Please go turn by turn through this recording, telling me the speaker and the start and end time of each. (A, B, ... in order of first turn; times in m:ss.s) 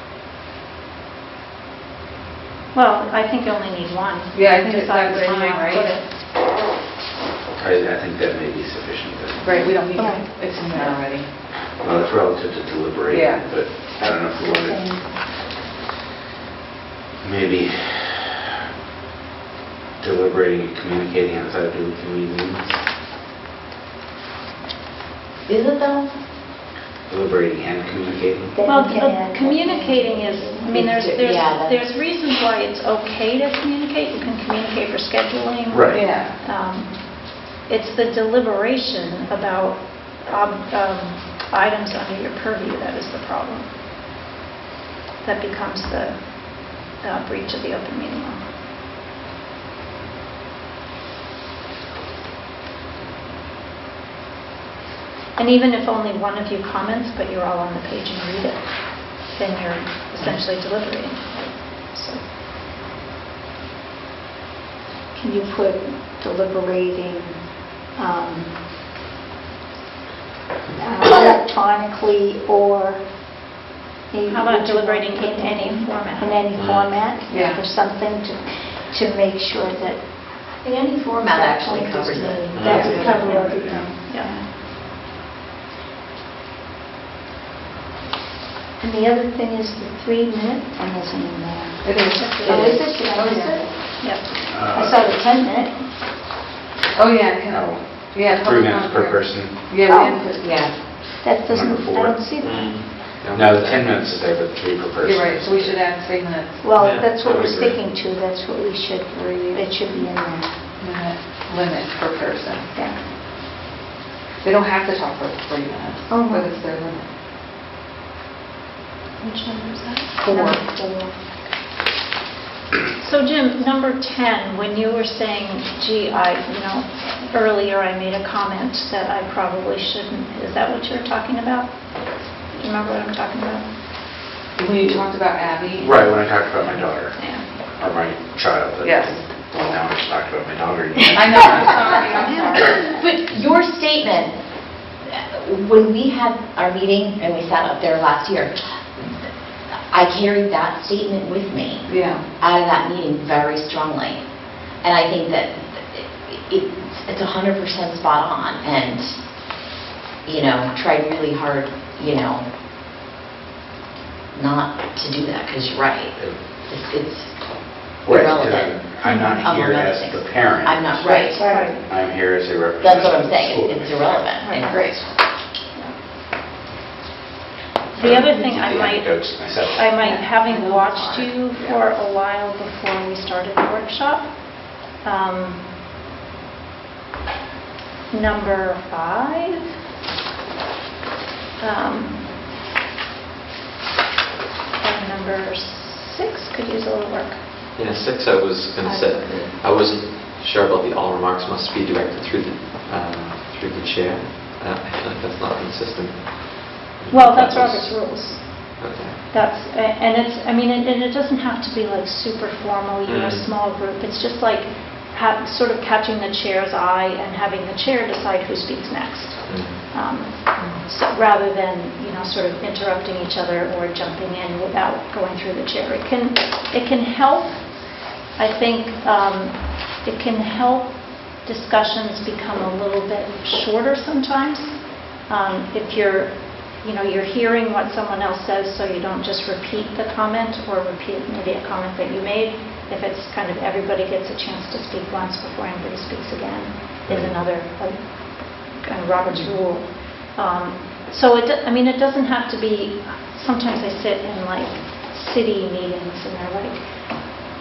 0:02.7-0:06.1 A
0:04.3-0:06.0 B
0:07.6-0:09.6 C
0:09.4-0:11.4 B
0:09.6-0:11.0 D
0:11.7-0:15.0 C
0:13.1-0:13.7 B
0:14.0-0:15.3 D
0:17.2-0:18.3 C
0:20.0-0:22.8 C
0:25.4-0:26.1 E
0:27.1-0:28.6 C
0:28.5-0:31.2 D
0:28.6-0:43.7 A
0:30.7-0:31.8 E
0:35.7-0:36.1 C
0:35.9-0:36.4 B
0:45.2-0:48.4 A
0:55.4-1:02.2 A
1:05.2-1:08.6 D
1:10.8-1:13.0 D
1:14.1-1:24.5 D
1:14.3-1:16.4 A
1:16.5-1:17.0 F
1:17.3-1:17.6 B
1:20.6-1:23.4 E
1:22.5-1:23.1 F
1:22.7-1:23.0 B
1:22.7-1:23.9 C
1:23.2-1:23.5 A
1:24.1-1:24.4 A
1:28.8-1:35.8 D
1:31.8-1:33.7 B
1:32.2-1:32.6 A
1:34.0-1:34.3 A
1:34.5-1:35.2 C
1:36.9-1:40.7 B
1:37.5-1:39.7 C
1:39.8-1:43.0 D
1:40.4-1:40.7 E
1:41.4-1:42.3 C
1:42.4-1:44.0 F
1:43.2-1:45.8 C
1:45.0-1:46.7 B
1:46.6-1:50.6 D
1:46.8-1:47.9 F
1:49.4-1:49.7 B
1:50.8-1:52.7 B
1:52.7-1:53.0 D
1:54.4-1:57.1 B
1:56.1-1:56.5 D
1:59.2-2:00.6 B
2:00.2-2:01.2 D
2:03.0-2:13.7 A
2:14.6-2:16.1 B
2:15.7-2:17.2 C
2:17.2-2:17.5 A
2:17.8-2:22.1 C
2:18.8-2:19.2 B
2:21.1-2:22.8 B
2:22.6-2:24.4 E
2:25.0-2:29.3 E
2:29.9-2:39.5 E
2:31.9-2:32.3 B
2:40.2-2:42.4 E
2:44.3-2:47.3 E
2:48.0-2:51.4 E
2:48.0-2:54.3 C
2:51.1-2:51.9 D
2:51.4-2:51.8 A
2:52.8-2:54.8 E
2:54.5-2:55.0 D
2:54.7-2:55.1 B
2:57.9-3:00.0 C
2:57.9-3:05.7 A
3:00.0-3:01.8 B
3:08.1-3:09.7 A
3:11.6-3:12.2 A
3:14.8-3:17.4 A
3:17.8-3:28.2 F
3:18.8-3:19.5 D
3:27.1-4:17.0 A
3:28.8-3:29.2 F
3:33.1-3:33.5 F
3:39.5-3:39.9 F
4:07.1-4:07.4 F